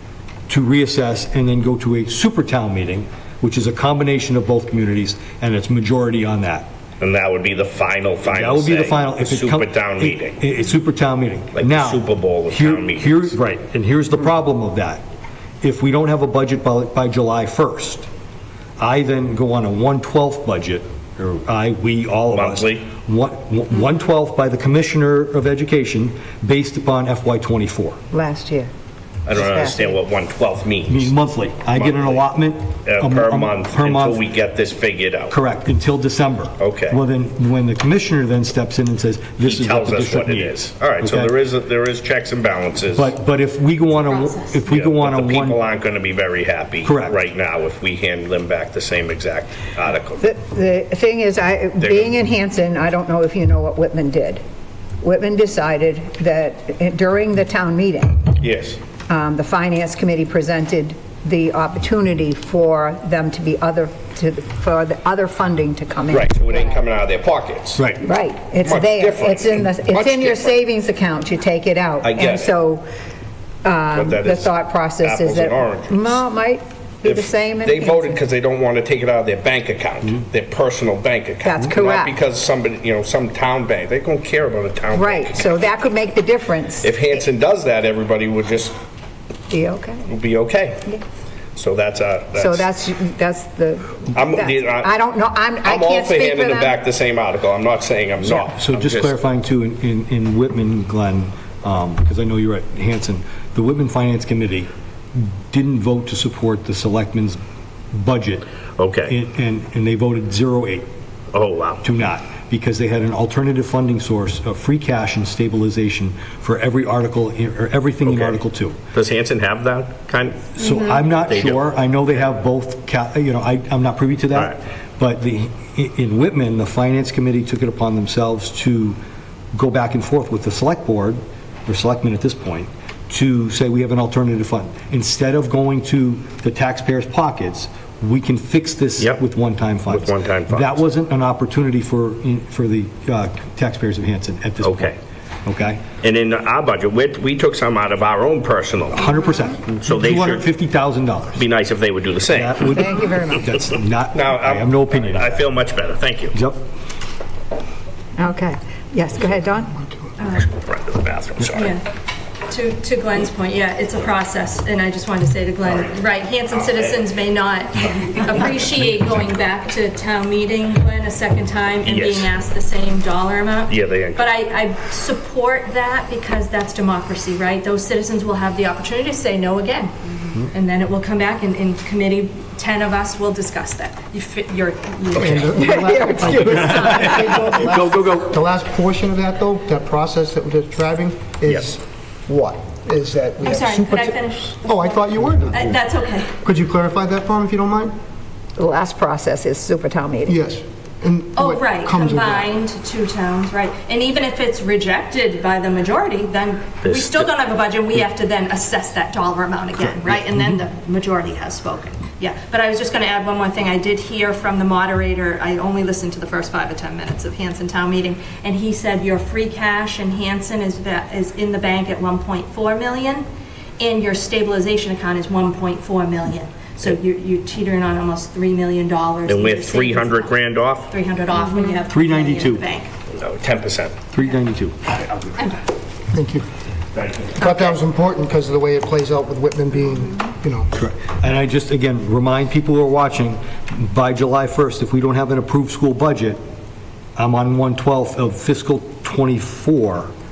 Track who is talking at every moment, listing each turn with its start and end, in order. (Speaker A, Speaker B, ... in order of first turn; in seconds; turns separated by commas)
Speaker A: 0.5-6.7, Speaker B: 7.0-10.4, Speaker A: 8.3-15.0, Speaker B: 11.5-13.4, Speaker A: 15.6-18.1, Speaker A: 18.8-28.0, Speaker B: 22.3-22.9, Speaker C: 28.1-28.7, Speaker B: 29.2-31.1, Speaker C: 29.3-29.9, Speaker A: 30.9-34.2, Speaker B: 31.7-32.2, Speaker B: 32.8-35.3, Speaker A: 35.3-41.3, Speaker B: 36.6-37.0, Speaker B: 39.4-43.1, Speaker A: 42.9-45.6, Speaker B: 44.6-50.2, Speaker A: 46.8-47.2, Speaker C: 50.2-54.4, Speaker B: 51.8-52.1, Speaker C: 55.0-58.3, Speaker B: 58.4-58.8, Speaker C: 59.1-66.8, Speaker B: 66.1-67.9, Speaker A: 67.8-68.0, Speaker C: 68.0-72.8, Speaker B: 68.6-70.5, Speaker B: 72.0-72.5, Speaker C: 73.6-78.2, Speaker B: 73.9-74.5, Speaker B: 75.0-76.2, Speaker B: 77.0-85.4, Speaker C: 81.4-82.1, Speaker C: 84.9-87.1, Speaker B: 86.8-88.7, Speaker C: 89.5-90.1, Speaker B: 90.1-90.9, Speaker B: 91.5-92.7, Speaker C: 92.3-96.8, Speaker B: 94.1-94.9, Speaker B: 95.6-99.1, Speaker A: 98.2-107.4, Speaker A: 107.9-108.4, Speaker B: 108.8-109.1, Speaker A: 109.1-110.8, Speaker B: 111.3-111.8, Speaker A: 111.8-118.8, Speaker B: 118.0-118.4, Speaker B: 118.9-120.6, Speaker A: 120.5-129.0, Speaker B: 121.1-121.7, Speaker A: 129.5-144.9, Speaker B: 139.9-140.8, Speaker B: 144.6-144.9, Speaker A: 145.4-145.8, Speaker B: 146.0-149.1, Speaker A: 148.9-151.4, Speaker B: 149.8-150.5, Speaker B: 151.3-152.8, Speaker A: 152.3-155.4, Speaker C: 152.7-153.4, Speaker B: 154.1-156.4, Speaker A: 156.3-156.6, Speaker C: 158.2-159.8, Speaker D: 160.2-160.5, Speaker B: 160.2-161.8, Speaker D: 161.5-161.9, Speaker D: 162.5-185.8, Speaker B: 166.5-166.9, Speaker B: 171.8-172.3, Speaker B: 173.7-174.3, Speaker E: 185.2-195.8, Speaker C: 185.6-187.2, Speaker B: 186.8-187.2, Speaker B: 187.8-188.1, Speaker D: 193.4-196.3, Speaker E: 196.4-197.9, Speaker C: 198.6-200.4, Speaker E: 200.3-202.5, Speaker D: 201.3-223.2, Speaker B: 206.8-207.3, Speaker D: 223.8-232.9, Speaker B: 229.2-230.9, Speaker A: 231.9-232.6, Speaker B: 233.1-234.0, Speaker A: 234.1-235.0, Speaker E: 236.1-236.5, Speaker E: 237.3-240.7, Speaker A: 240.8-246.4, Speaker A: 247.2-250.1